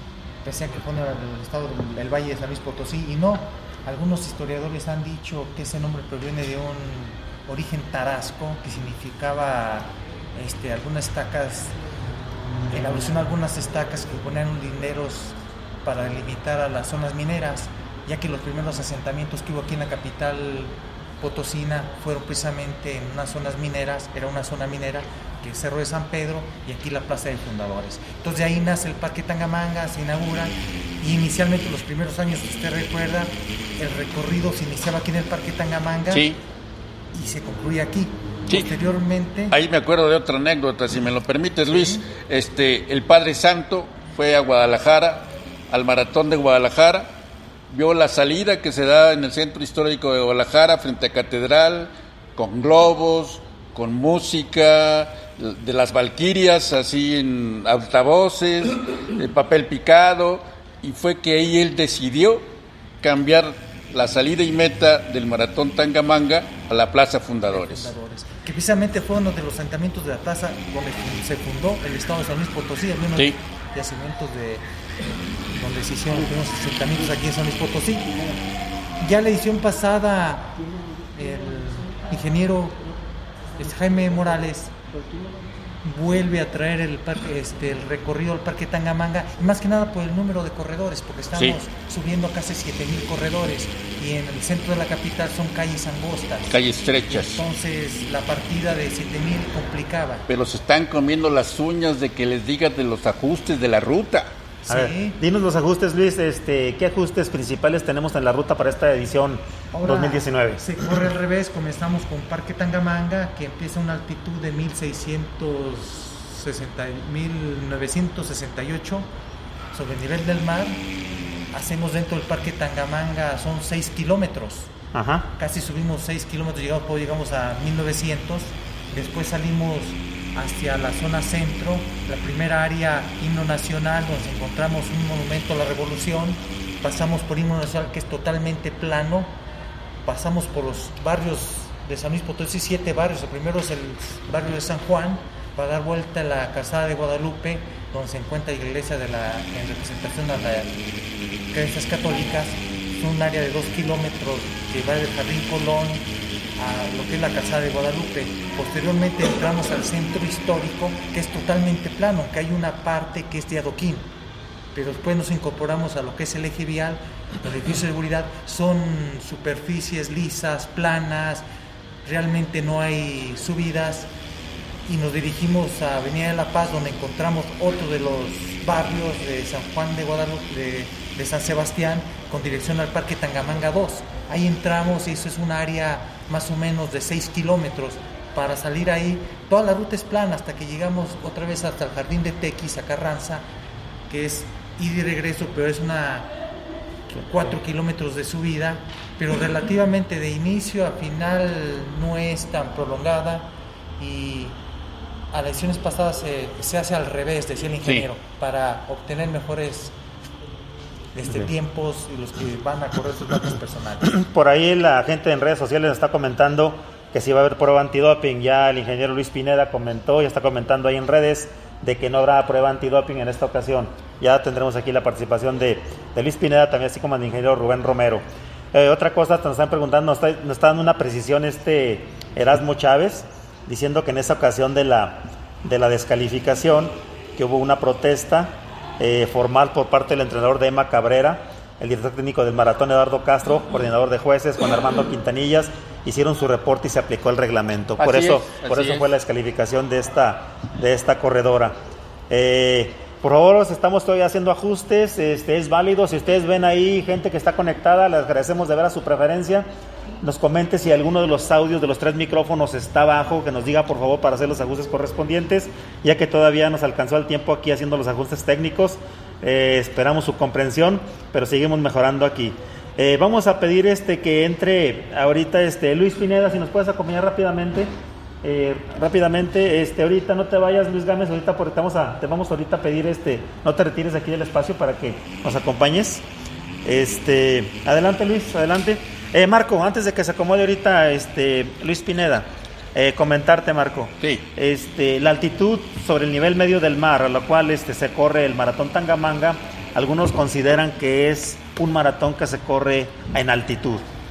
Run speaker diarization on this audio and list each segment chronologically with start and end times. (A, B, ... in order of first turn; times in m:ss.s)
0:00.4-0:11.8 A
0:12.7-0:36.3 A
0:36.1-0:36.4 B
0:37.1-0:39.5 A
0:39.5-0:47.1 B
0:41.7-0:42.0 A
0:47.7-1:02.5 B
1:03.0-1:07.9 B
1:07.5-1:14.6 A
1:15.5-1:18.3 A
1:19.0-1:22.9 A
1:23.6-1:24.8 A
1:25.1-1:25.3 C
1:25.8-1:40.2 A
1:36.5-1:37.4 B
1:40.3-1:44.3 B
1:44.6-1:45.2 A
1:44.7-1:50.7 C
1:49.7-1:59.1 A
1:59.7-2:00.8 A
2:01.5-2:04.7 A
2:04.9-2:05.3 C
2:05.3-2:19.3 A
2:20.0-2:30.8 A
2:31.5-2:36.0 A
2:36.6-2:44.1 A
2:44.7-2:51.4 A
2:52.0-2:54.1 A
2:54.8-3:13.4 A
3:14.1-3:16.3 A
3:17.1-3:24.6 A
3:25.3-3:29.9 A
3:31.1-3:34.1 A
3:34.1-4:11.8 C
4:08.0-4:09.1 B
4:12.3-4:19.7 C
4:20.2-4:37.9 C
4:38.4-4:46.2 C
4:46.8-5:04.0 C